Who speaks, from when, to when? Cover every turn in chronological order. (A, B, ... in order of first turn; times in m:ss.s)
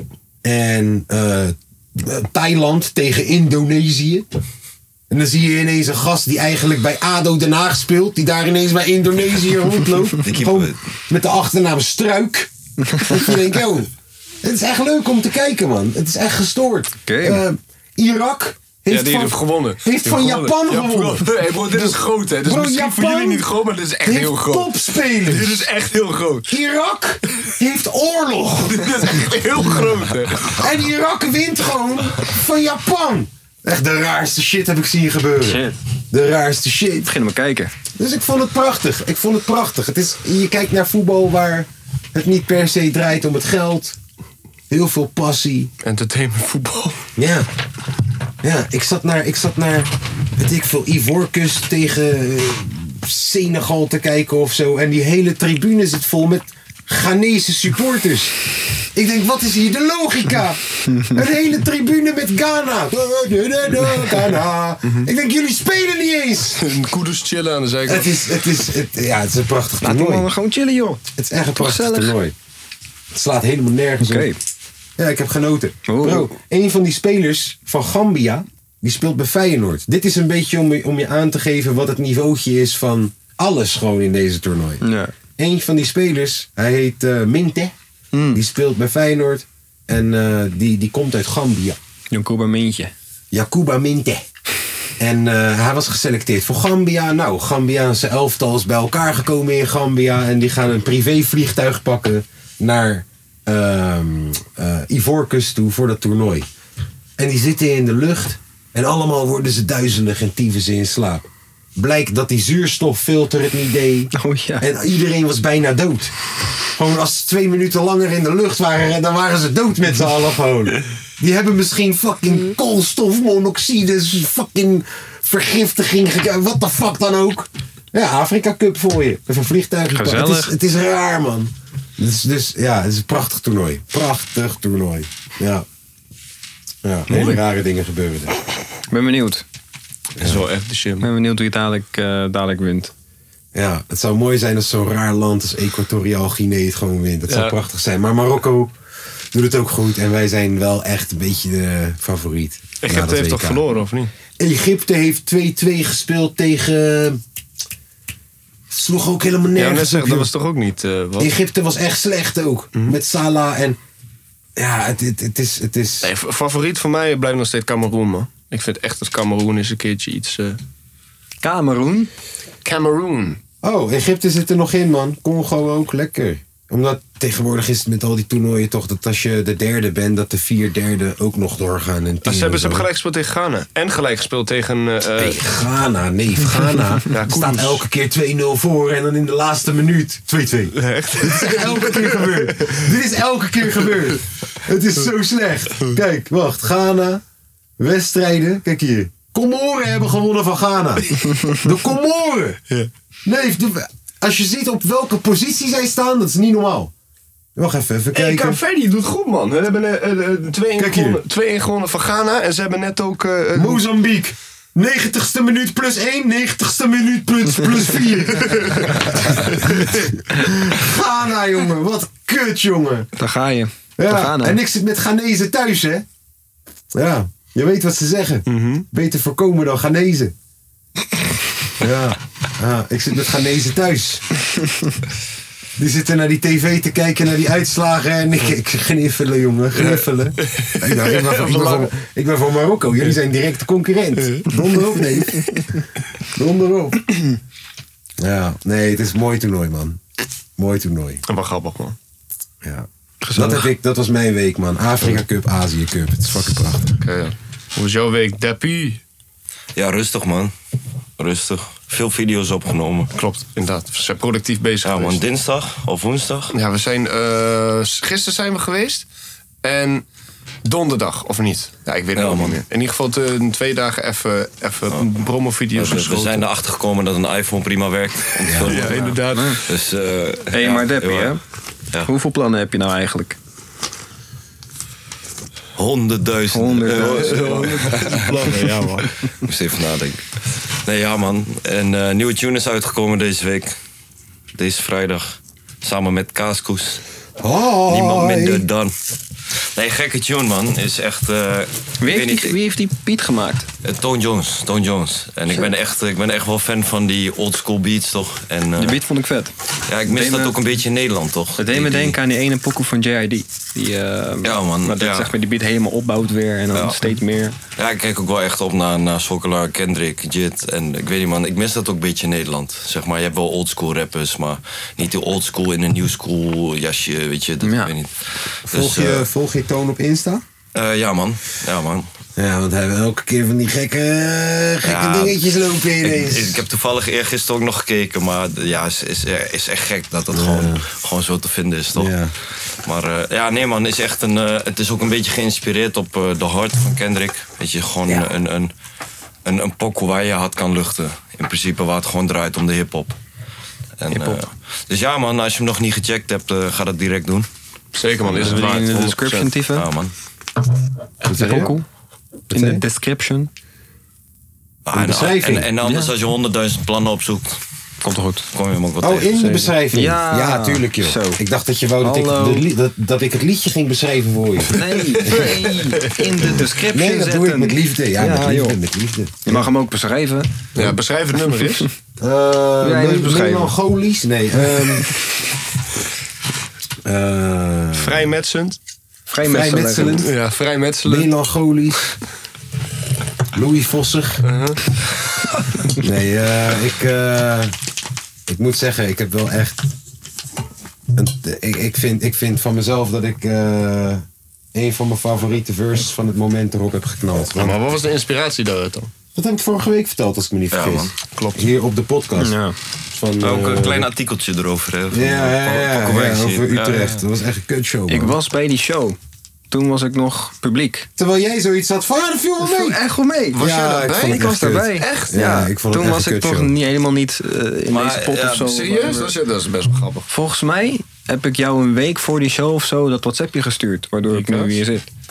0:00.4-0:04.3 A
0:05.1-0:13.9 A
0:10.2-0:10.8 B
0:14.4-0:23.5 A
0:17.1-0:17.4 C
0:18.9-0:26.5 D
0:24.0-0:25.7 A
0:26.5-0:29.1 A
0:28.6-0:30.6 D
0:30.4-0:37.1 A
0:35.4-0:35.8 C
0:37.0-0:37.7 C
0:38.0-0:44.0 A
0:44.7-0:45.7 A
0:45.8-0:47.1 D
0:47.2-0:47.5 A
0:48.4-1:06.6 A
1:06.6-1:08.2 D
1:07.9-1:10.3 A
1:09.8-1:11.0 C
1:11.2-1:12.4 A
1:11.6-1:12.2 C
1:13.1-1:14.3 A
1:14.0-1:14.4 C
1:15.0-1:24.8 A
1:15.9-1:16.3 C
1:24.8-1:25.1 C
1:25.4-1:27.8 A
1:28.1-1:28.4 C
1:28.3-1:31.8 A
1:32.1-1:32.9 C
1:33.3-1:34.2 A
1:35.0-1:46.5 A
1:47.2-1:56.1 A
1:54.1-1:54.7 C
1:56.7-2:15.6 A
2:09.9-2:10.5 C
2:16.8-2:18.4 A
2:17.1-2:17.4 D
2:18.9-2:19.4 C
2:20.2-2:20.4 A
2:20.2-2:21.1 D
2:21.0-2:22.9 C
2:23.5-2:28.7 A
2:27.3-2:27.6 D
2:29.3-2:33.6 A
2:32.8-2:34.1 D
2:34.4-2:37.2 A
2:38.7-2:40.3 A
2:39.6-2:41.4 D
2:41.2-2:43.8 A
2:44.6-2:46.1 A
2:46.0-2:50.6 D
2:51.4-2:52.1 C
2:52.6-2:53.4 D
2:53.6-3:02.9 A
3:02.2-3:05.4 D
3:05.2-3:17.2 A
3:07.1-3:07.8 D
3:10.8-3:12.8 D
3:17.8-3:22.6 A
3:23.2-3:26.9 A
3:27.6-3:28.6 A
3:28.1-3:33.8 D
3:30.8-3:31.2 A
3:33.6-3:43.1 A
3:38.5-3:38.9 D
3:39.5-3:39.9 D
3:43.2-3:44.6 C
3:44.0-3:46.0 A
3:46.9-3:50.3 A
3:48.5-3:48.8 D
3:51.8-3:54.3 A
3:55.8-4:07.1 A
3:59.7-4:01.9 D
4:04.2-4:05.3 D
4:08.2-4:10.0 A
4:10.6-4:11.2 A
4:11.3-4:12.0 D
4:12.6-4:17.0 A
4:13.2-4:13.7 C
4:17.0-4:19.0 D
4:19.8-4:20.5 B
4:21.2-4:23.1 B
4:23.1-4:25.2 D
4:24.8-4:26.5 B
4:26.5-4:29.1 D
4:29.6-4:30.0 D
4:30.6-4:36.5 D
4:32.2-4:32.6 B
4:35.8-4:41.4 B
4:38.4-4:38.9 A
4:38.6-4:39.7 D
4:39.3-4:39.6 C
4:40.5-4:41.4 C
4:42.0-4:43.4 C
4:45.8-4:48.6 B
4:46.5-4:48.5 C
4:46.9-4:49.1 D
4:49.4-4:53.8 B
4:54.6-4:57.0 B
4:57.4-4:58.7 A
4:57.9-4:58.9 B
4:59.8-5:02.6 B
5:02.0-5:03.7 C
5:03.8-5:09.0 B
5:08.8-5:09.5 C
5:09.9-5:12.2 B
5:10.1-5:10.6 C
5:11.6-5:17.6 C
5:14.4-5:15.3 B
5:16.7-5:17.2 B
5:17.8-5:29.2 B
5:27.6-5:27.9 C
5:28.7-5:30.4 A
5:30.7-5:32.1 B
5:32.4-5:36.6 A
5:34.8-5:35.4 B
5:36.0-5:42.1 B
5:40.3-5:40.9 A
5:42.0-5:42.3 A
5:42.8-5:48.7 B
5:49.4-5:53.2 B
5:54.0-5:57.5 B
5:54.1-5:54.4 C
5:57.9-5:59.5 D
5:58.4-5:59.9 C
5:59.7-6:00.1 B
6:01.2-6:01.7 A
6:01.2-6:01.8 C
6:02.5-6:02.8 A
6:02.5-6:03.5 C
6:04.9-6:07.6 B
6:04.9-6:05.7 A
6:05.8-6:06.1 C
6:08.0-6:08.5 C
6:08.5-6:09.6 B
6:09.0-6:15.6 A
6:09.9-6:11.4 C
6:12.0-6:12.7 C
6:14.7-6:18.8 C
6:15.1-6:16.4 D
6:16.5-6:19.7 A
6:19.4-6:20.5 C
6:20.8-6:21.9 D
6:22.2-6:25.1 A
6:22.8-6:23.7 C
6:27.0-6:28.3 A
6:27.9-6:28.8 D
6:29.3-6:30.3 C
6:29.4-6:30.3 A
6:30.2-6:31.3 D
6:31.0-6:32.1 A
6:33.5-6:34.4 A
6:34.4-6:34.8 D
6:36.0-6:37.7 A
6:38.5-6:39.9 A
6:41.2-6:47.8 A
6:47.5-6:49.1 D
6:49.4-6:52.6 A
6:50.7-6:51.1 B
6:51.3-6:51.7 D
6:52.4-6:52.8 C
6:53.1-6:54.1 A
6:53.4-6:56.9 B
6:55.1-6:58.4 A
6:56.7-6:57.2 D
6:58.1-6:59.2 C
6:59.7-7:01.1 C
7:01.2-7:03.0 A
7:02.6-7:03.6 C
7:03.5-7:05.4 D
7:03.6-7:06.7 A
7:04.2-7:09.4 C
7:07.9-7:08.8 B
7:08.6-7:10.3 D
7:10.3-7:15.1 C
7:14.3-7:14.8 D